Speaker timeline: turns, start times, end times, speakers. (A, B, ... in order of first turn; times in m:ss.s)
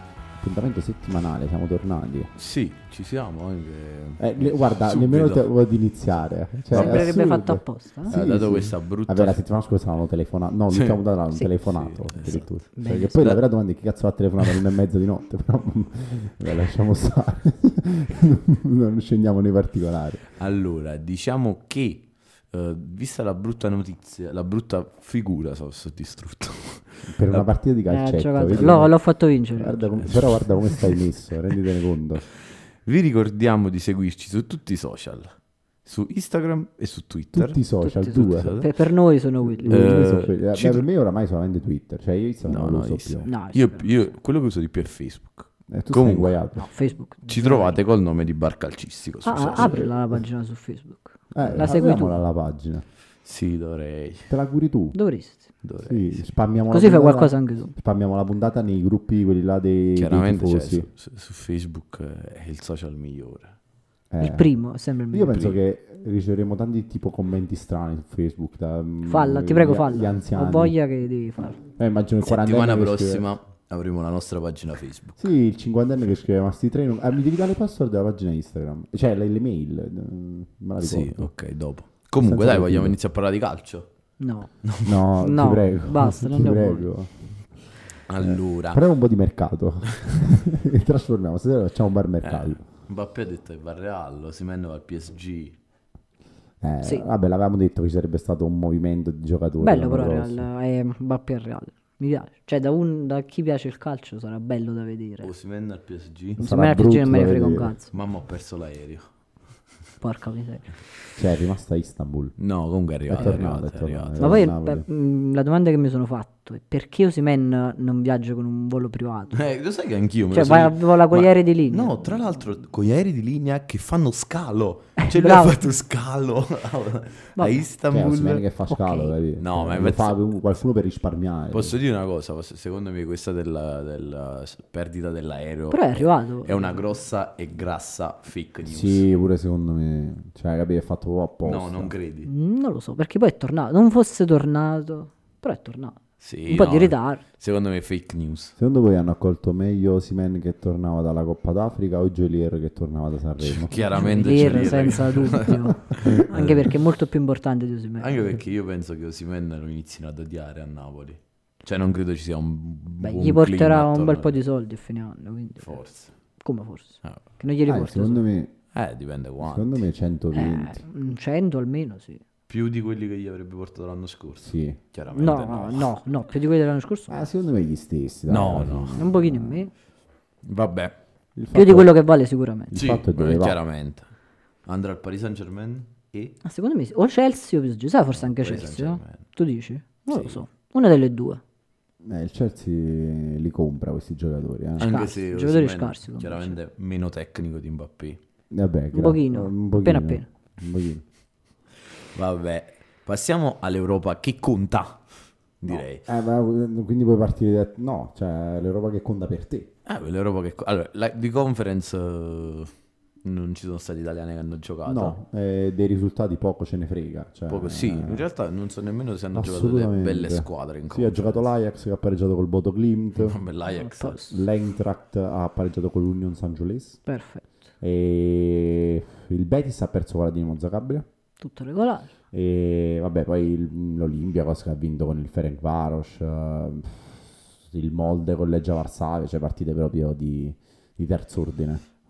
0:00.4-0:02.3 A
0:02.4-0:05.4 B
0:04.2-0:20.3 A
0:06.7-0:07.2 B
0:06.7-0:08.2 C
0:08.1-0:09.4 B
0:10.7-0:11.0 B
0:11.5-0:12.5 B
0:12.8-0:13.3 C
0:20.4-0:27.5 B
0:27.0-0:28.9 A
0:27.9-0:29.9 C
0:29.5-0:32.2 A
0:30.0-0:31.0 B
0:32.8-0:38.7 B
0:37.3-0:38.5 A
0:37.8-0:39.9 C
0:39.6-0:43.3 A
0:39.6-0:40.8 B
0:42.4-0:46.4 B
0:43.2-0:43.9 C
0:45.7-0:46.7 A
0:46.6-0:47.8 C
0:47.3-0:49.8 B
0:49.2-0:52.1 C
0:49.5-0:50.2 A
0:51.3-0:52.8 A
0:51.4-0:51.7 B
0:53.2-0:54.3 B
0:54.3-0:55.0 A
0:54.9-0:55.5 C
0:55.6-0:56.2 B
0:55.8-1:00.9 A
0:56.7-0:57.7 C
1:00.0-1:03.6 B
1:04.1-1:04.5 A
1:04.2-1:05.5 C
1:05.1-1:10.7 A
1:09.0-1:11.6 C
1:11.7-1:13.2 A
1:12.2-1:15.2 B
1:15.2-1:21.3 A
1:20.8-1:23.9 B
1:22.2-1:23.0 A
1:24.2-1:24.5 C
1:24.6-1:25.0 B
1:24.8-1:27.5 A
1:25.2-1:26.9 C
1:28.1-1:28.8 B
1:28.2-1:32.6 A
1:32.2-1:35.6 B
1:36.6-1:40.5 A
1:39.6-1:45.3 C
1:45.2-1:46.4 B
1:46.4-1:47.7 A
1:46.4-1:47.9 C
1:47.9-1:49.1 B
1:50.0-1:50.8 C
1:51.2-1:52.3 A
1:52.4-1:54.5 B
1:53.1-1:54.8 A
1:54.2-1:59.4 C
1:59.3-2:08.4 B
2:00.3-2:02.2 C
2:05.0-2:05.6 C
2:07.4-2:07.6 C
2:07.9-2:11.8 A
2:08.7-2:09.1 C
2:09.4-2:10.2 B
2:11.5-2:19.0 B
2:15.7-2:16.8 C
2:18.6-2:21.9 A
2:21.4-2:22.3 B
2:22.2-2:27.2 C
2:26.2-2:28.5 B
2:28.6-2:34.8 A
2:33.4-2:36.7 B
2:33.9-2:38.2 C
2:35.9-2:36.2 A
2:38.0-2:44.4 B
2:43.0-2:45.8 C
2:45.6-2:46.1 B
2:46.4-2:48.2 C
2:47.7-2:48.5 A
2:48.7-2:49.8 B
2:49.4-2:50.8 A
2:50.3-2:52.2 C
2:52.5-2:55.9 B
2:54.4-2:54.8 A
2:55.1-2:57.2 C
2:57.1-2:59.6 A
2:58.3-2:59.0 B
2:59.0-2:59.7 C
3:00.4-3:01.0 B
3:01.4-3:01.9 A
3:01.5-3:02.7 C
3:02.7-3:03.6 A
3:02.7-3:04.1 B
3:04.6-3:06.4 B
3:06.4-3:11.4 C
3:08.2-3:09.2 B
3:10.1-3:10.4 B
3:12.0-3:14.9 A
3:14.8-3:18.2 B
3:14.8-3:16.5 C
3:18.5-3:21.0 A
3:18.9-3:20.2 C
3:22.1-3:26.0 B
3:25.7-3:29.7 A
3:29.8-3:32.7 B
3:33.2-3:35.2 B
3:34.8-3:38.2 A
3:37.5-3:41.5 B
3:39.3-3:43.4 A
3:43.2-3:44.2 B
3:43.7-3:44.4 C
3:44.3-3:47.0 A
3:47.0-3:47.4 C
3:47.8-3:51.0 A
3:51.4-3:52.1 C
3:52.3-4:01.8 A